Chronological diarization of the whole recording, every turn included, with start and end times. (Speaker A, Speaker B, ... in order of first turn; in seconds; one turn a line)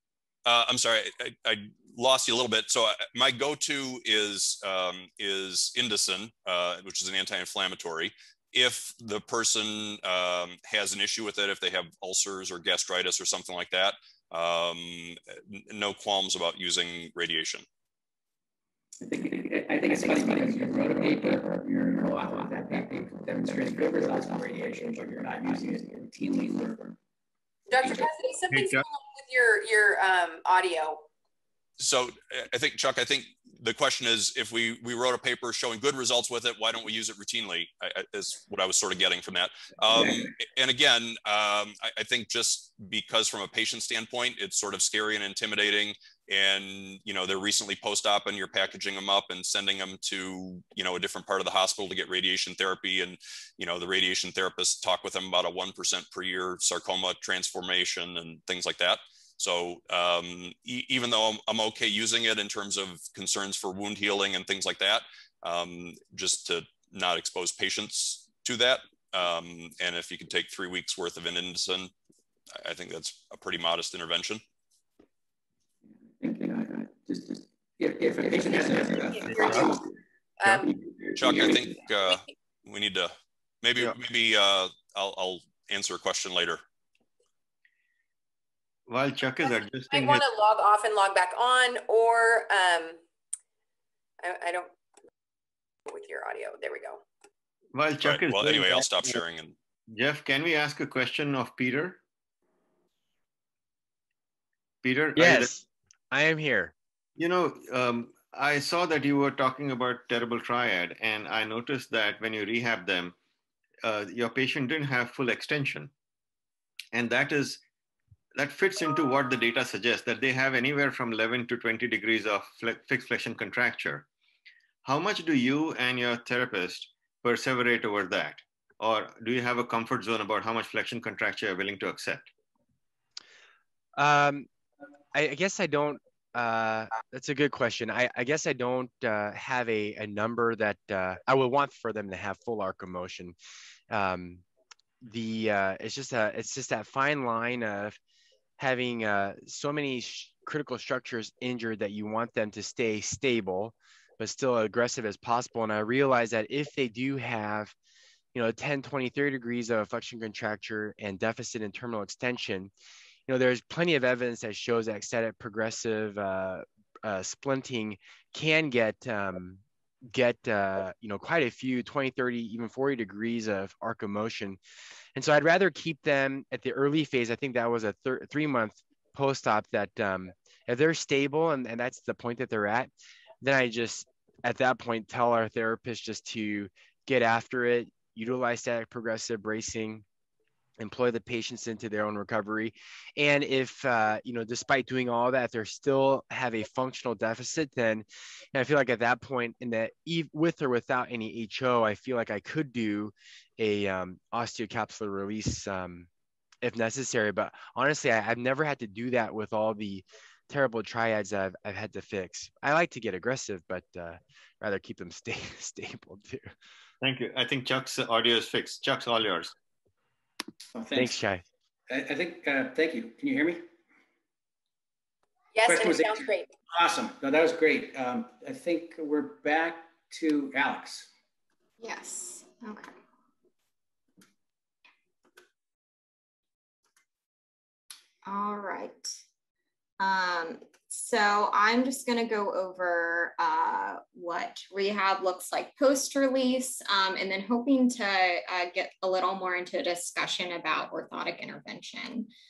Speaker A: 0.4-17.6
Speaker B: 19.0-26.9
Speaker C: 27.7-31.0
Speaker D: 28.5-28.8
Speaker A: 31.8-71.9
Speaker A: 72.6-74.4
Speaker B: 76.2-79.8
Speaker C: 79.2-79.8
Speaker D: 79.3-79.8
Speaker C: 80.4-80.8
Speaker A: 81.2-86.6
Speaker D: 88.9-90.2
Speaker C: 89.9-93.0
Speaker C: 94.2-94.7
Speaker C: 95.8-97.0
Speaker D: 97.7-99.2
Speaker A: 98.0-99.5
Speaker D: 99.9-102.0
Speaker D: 104.8-105.5
Speaker E: 105.2-106.7
Speaker D: 107.2-113.1
Speaker D: 113.8-115.9
Speaker D: 116.9-117.6
Speaker D: 118.4-124.1
Speaker D: 124.8-132.3
Speaker E: 134.0-134.5
Speaker E: 135.1-143.3
Speaker E: 143.9-144.4
Speaker E: 145.0-148.0
Speaker E: 148.6-157.7
Speaker E: 158.3-162.7
Speaker E: 163.3-174.6
Speaker E: 175.2-182.9
Speaker E: 183.4-190.0
Speaker E: 190.8-206.1
Speaker E: 206.6-216.5
Speaker D: 217.0-219.5
Speaker B: 220.7-221.2
Speaker E: 220.9-221.4
Speaker B: 221.9-223.6
Speaker C: 225.5-226.5
Speaker B: 225.6-231.1
Speaker F: 231.8-232.9
Speaker F: 238.2-239.2
Speaker F: 240.0-252.3